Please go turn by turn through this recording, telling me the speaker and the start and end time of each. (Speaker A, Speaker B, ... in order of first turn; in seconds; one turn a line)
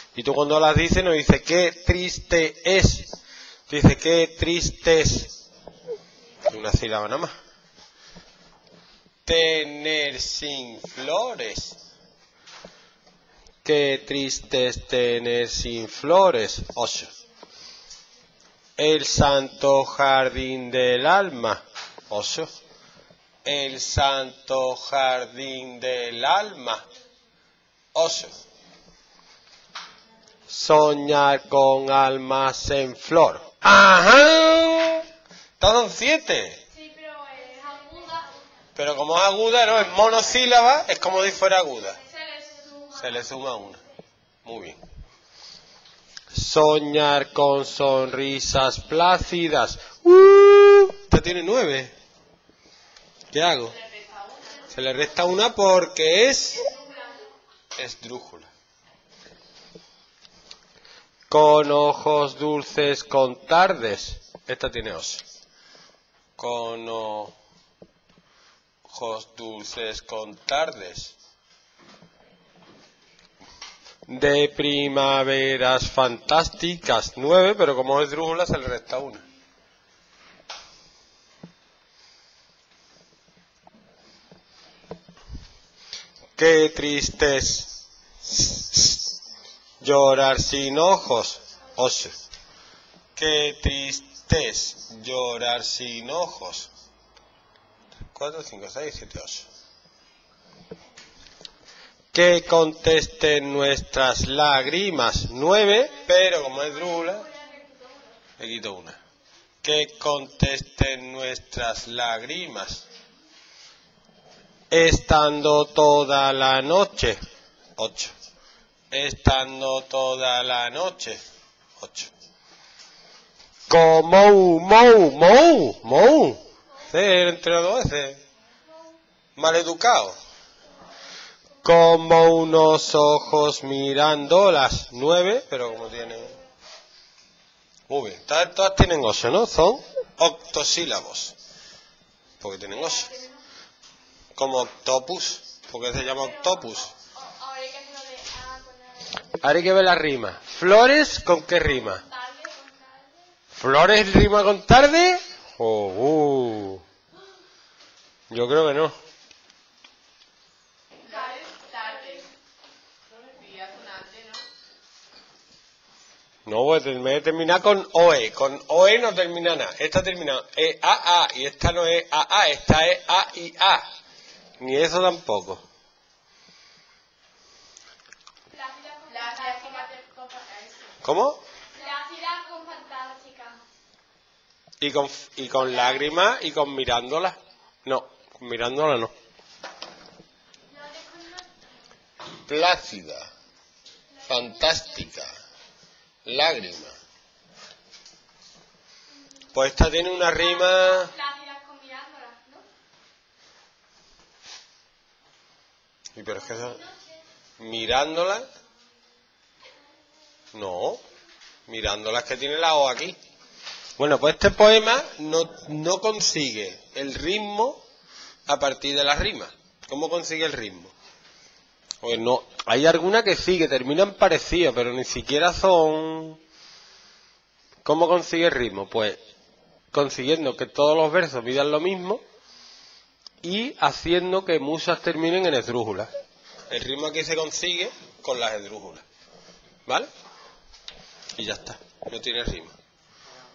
Speaker A: 0.1-3.2
Speaker A: 3.7-5.4
Speaker A: 6.5-7.3
Speaker A: 9.2-11.8
Speaker A: 13.6-17.1
Speaker A: 18.8-22.5
Speaker A: 23.4-26.8
Speaker A: 27.9-28.4
Speaker A: 30.5-35.0
Speaker A: 35.6-36.6
Speaker B: 36.7-38.3
Speaker A: 38.8-42.0
Speaker B: 42.0-43.0
Speaker A: 42.9-43.8
Speaker A: 44.4-44.8
Speaker A: 46.3-51.9
Speaker A: 53.3-53.8
Speaker A: 54.7-56.7
Speaker A: 57.7-58.5
Speaker A: 61.3-65.2
Speaker A: 66.4-67.3
Speaker A: 68.8-71.2
Speaker A: 74.1-79.2
Speaker A: 86.3-89.1
Speaker A: 89.8-92.2
Speaker A: 93.2-96.7
Speaker A: 98.1-99.5
Speaker A: 102.1-107.3
Speaker B: 107.1-108.2
Speaker A: 108.4-109.0
Speaker A: 109.6-112.8
Speaker A: 114.7-117.2
Speaker A: 117.8-118.1
Speaker A: 118.9-121.2
Speaker A: 121.8-122.1
Speaker A: 123.7-128.2
Speaker A: 129.4-130.2
Speaker A: 131.6-136.4
Speaker A: 137.9-141.3
Speaker A: 142.4-143.2
Speaker A: 144.3-146.9
Speaker B: 147.0-149.2
Speaker A: 149.4-152.0
Speaker B: 152.0-153.1
Speaker A: 153.5-156.8
Speaker A: 158.3-158.9
Speaker C: 161.1-162.2
Speaker B: 161.7-162.2
Speaker C: 163.1-164.4
Speaker A: 166.4-173.8
Speaker A: 174.6-175.6
Speaker B: 178.5-179.9
Speaker C: 179.3-180.9
Speaker A: 181.0-181.4
Speaker B: 181.7-183.6
Speaker A: 184.8-189.1
Speaker B: 190.7-191.5
Speaker A: 192.4-193.3
Speaker A: 194.2-195.4
Speaker A: 196.2-196.9
Speaker A: 199.5-201.1
Speaker B: 200.4-202.6
Speaker A: 206.2-206.8
Speaker A: 207.6-208.4
Speaker A: 210.5-211.0
Speaker A: 211.7-213.2
Speaker A: 214.0-217.8
Speaker A: 218.4-220.9
Speaker A: 222.0-226.4
Speaker A: 227.8-229.2
Speaker A: 229.9-232.2
Speaker A: 233.4-236.1
Speaker A: 236.7-239.0
Speaker A: 241.3-242.7